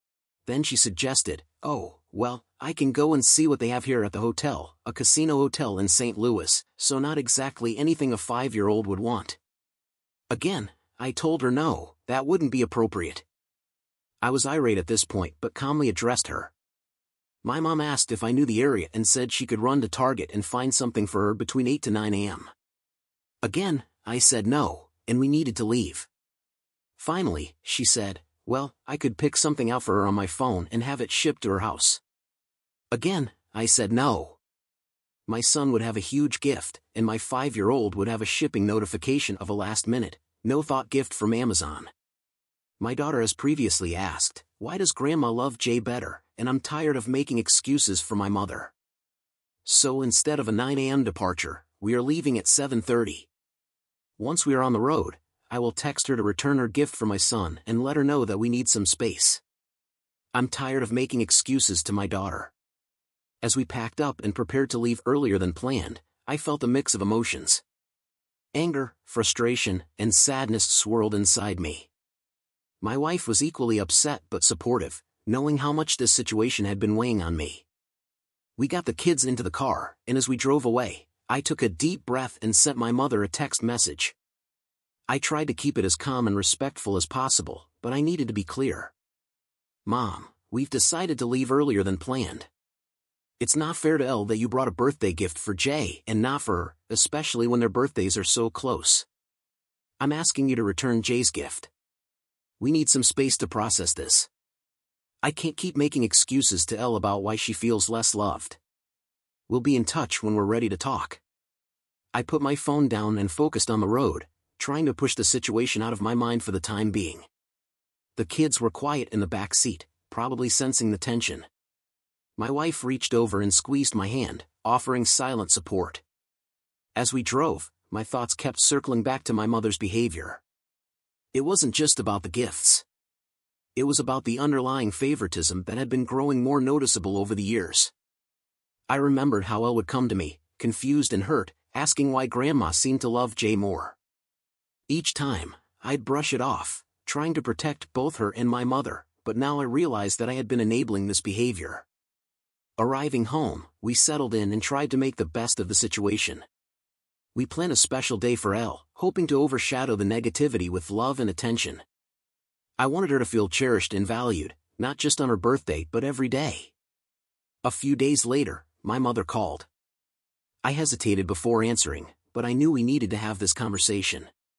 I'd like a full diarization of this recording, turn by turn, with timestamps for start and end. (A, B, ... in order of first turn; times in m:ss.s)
0:00.4-0:09.4 A
0:10.3-0:13.2 A
0:14.2-0:16.5 A
0:17.4-0:22.5 A
0:23.4-0:26.1 A
0:27.0-0:32.0 A
0:32.9-0:34.4 A
0:35.3-0:41.9 A
0:42.8-0:48.7 A
0:49.6-0:53.3 A
0:54.2-0:59.4 A
1:00.3-1:02.5 A
1:03.4-1:07.6 A
1:08.5-1:11.9 A
1:12.8-1:17.6 A
1:18.6-1:24.2 A
1:25.1-1:28.9 A
1:29.8-1:32.5 A
1:33.4-1:39.1 A
1:40.0-1:41.7 A
1:42.6-1:44.3 A
1:45.2-1:48.6 A
1:49.5-1:51.2 A
1:52.1-1:57.3 A
1:58.2-2:01.5 A
2:02.4-2:06.0 A
2:06.9-2:10.4 A
2:11.3-2:12.8 A
2:13.8-2:17.9 A
2:18.9-2:24.0 A
2:24.9-2:31.8 A
2:32.8-2:36.4 A
2:37.3-2:41.8 A
2:42.8-2:46.7 A
2:47.6-2:49.7 A
2:50.6-2:54.3 A